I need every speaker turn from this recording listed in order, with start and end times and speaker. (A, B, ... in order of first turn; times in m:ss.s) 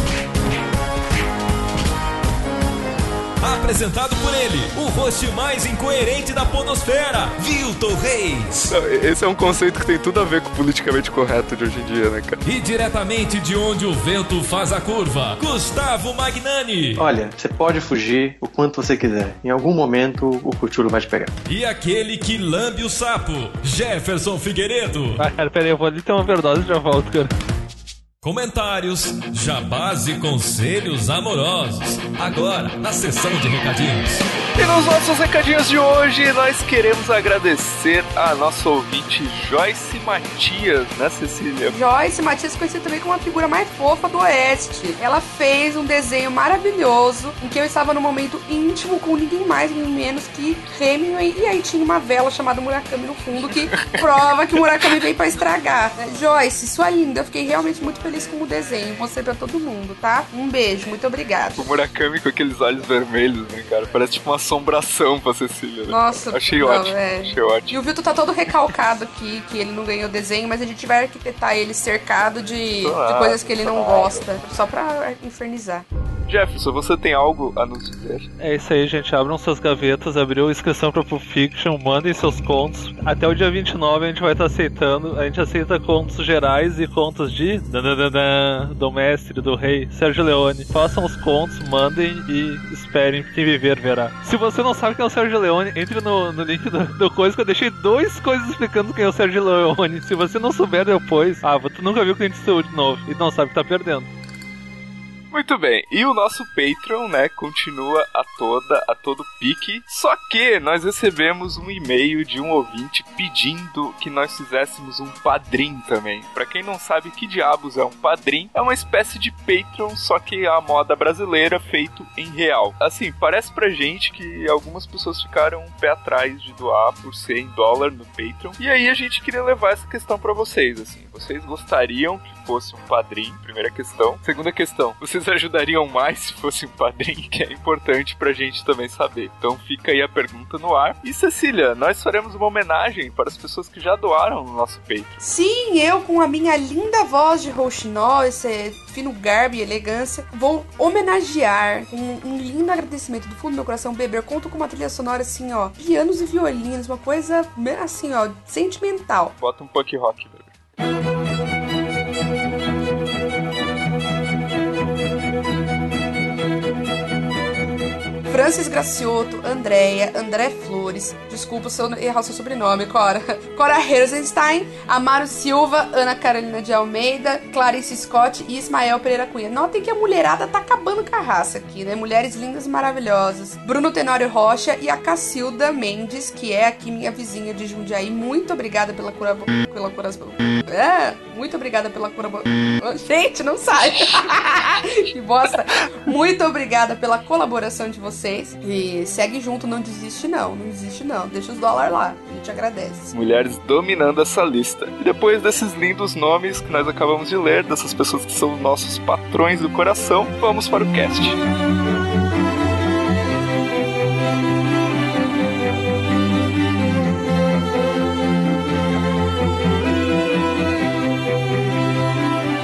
0:03.4-0:08.7 A
0:08.7-0:12.4 B
0:12.4-0:17.0 A
0:17.0-0:21.3 C
0:21.5-0:25.2 A
0:25.2-0:27.3 D
0:28.2-0:34.3 A
0:34.5-0:41.8 B
0:41.7-1:01.6 E
0:53.4-0:55.0 B
1:01.6-1:07.8 B
1:05.8-1:15.8 E
1:12.8-1:14.3 B
1:16.3-1:18.3 B
1:18.4-1:44.1 D
1:45.3-2:25.2 B
2:25.2-2:39.3 E
2:39.4-2:40.5 B
2:48.3-3:23.1 E
3:23.1-3:31.4 B